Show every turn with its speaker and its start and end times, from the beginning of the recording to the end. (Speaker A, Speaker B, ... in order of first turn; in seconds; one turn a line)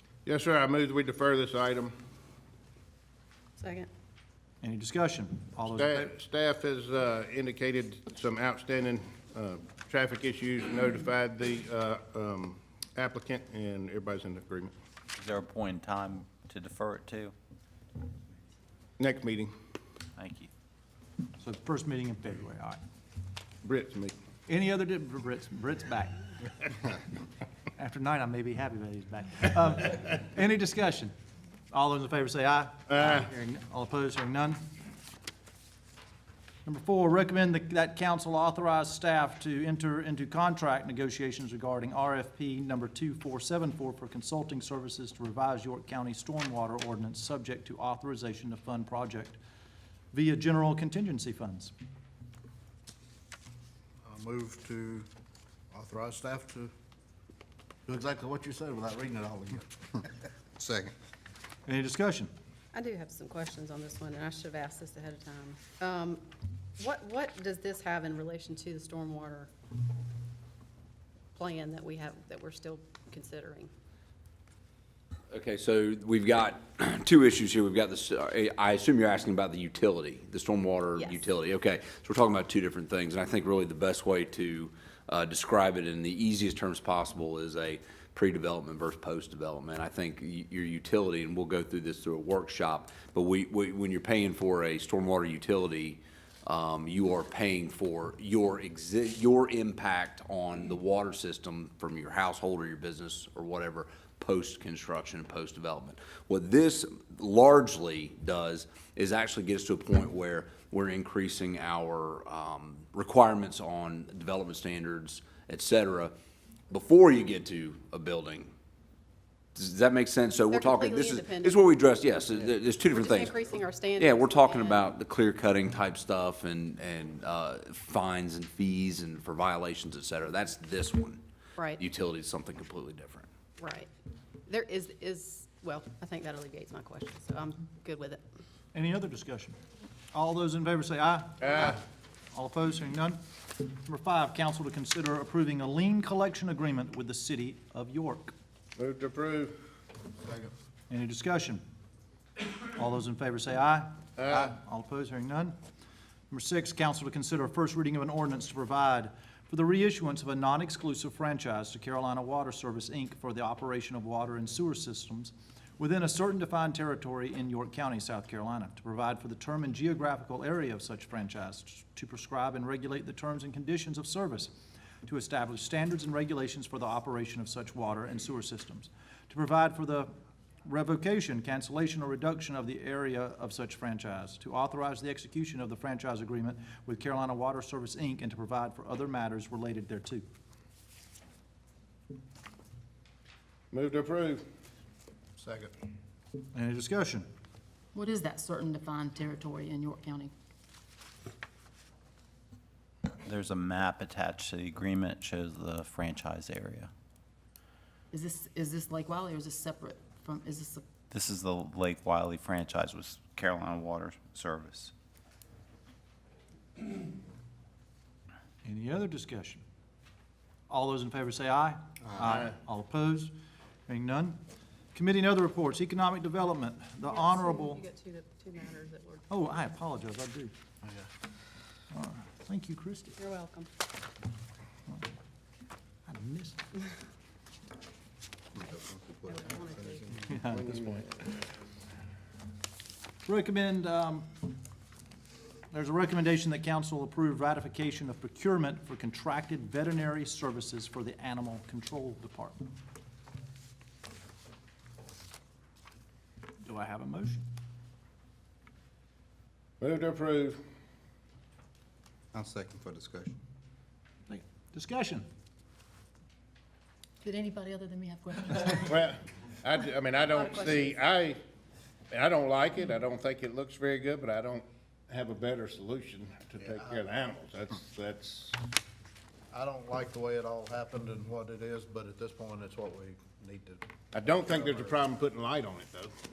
Speaker A: 0.2-1.9
Speaker B: 3.6-3.9
Speaker C: 4.6-6.1
Speaker A: 5.7-14.7
Speaker D: 15.2-17.3
Speaker A: 19.0-19.5
Speaker D: 20.1-20.5
Speaker C: 21.4-22.8
Speaker A: 23.6-24.1
Speaker C: 24.5-26.3
Speaker C: 27.8-31.1
Speaker C: 31.7-34.6
Speaker A: 32.9-33.2
Speaker C: 36.7-49.4
Speaker C: 50.1-51.7
Speaker E: 54.0-55.1
Speaker E: 55.7-56.7
Speaker E: 57.9-60.0
Speaker F: 60.5-60.9
Speaker C: 61.7-62.3
Speaker B: 62.7-66.3
Speaker B: 66.8-69.5
Speaker B: 71.3-73.7
Speaker G: 75.3-116.1
Speaker B: 81.0-81.3
Speaker G: 116.7-118.5
Speaker G: 119.6-131.2
Speaker B: 120.5-121.8
Speaker B: 122.9-124.9
Speaker B: 131.6-131.8
Speaker G: 131.8-133.3
Speaker B: 133.6-133.9
Speaker B: 134.5-138.2
Speaker C: 138.7-139.6
Speaker C: 140.1-141.8
Speaker C: 142.3-148.3
Speaker A: 148.8-149.5
Speaker E: 150.2-150.5
Speaker C: 150.9-151.6
Speaker C: 152.7-155.6
Speaker C: 156.3-174.5
Speaker C: 175.1-180.1
Speaker C: 180.7-190.2
Speaker A: 193.7-194.4
Speaker E: 195.4-195.7
Speaker C: 196.5-197.2
Speaker H: 197.9-200.3
Speaker D: 203.2-206.9
Speaker H: 208.1-210.8
Speaker D: 211.1-214.9
Speaker C: 218.6-219.6
Speaker C: 220.7-223.3
Speaker C: 223.9-224.4
Speaker C: 224.9-227.8
Speaker B: 227.1-229.2
Speaker C: 229.3-230.5
Speaker C: 231.9-233.2
Speaker B: 233.2-233.7
Speaker C: 236.1-236.6
Speaker F: 238.5-240.1
Speaker B: 239.3-240.1
Speaker C: 240.2-241.0
Speaker C: 243.2-244.4
Speaker C: 245.7-252.7
Speaker C: 256.6-257.4
Speaker A: 259.8-260.6
Speaker F: 262.3-263.4
Speaker C: 264.3-265.2
Speaker H: 267.2-269.0
Speaker A: 268.8-271.4
Speaker H: 270.3-270.9
Speaker A: 272.1-278.6
Speaker E: 279.5-283.8
Speaker A: 284.1-286.1
Speaker E: 284.4-284.9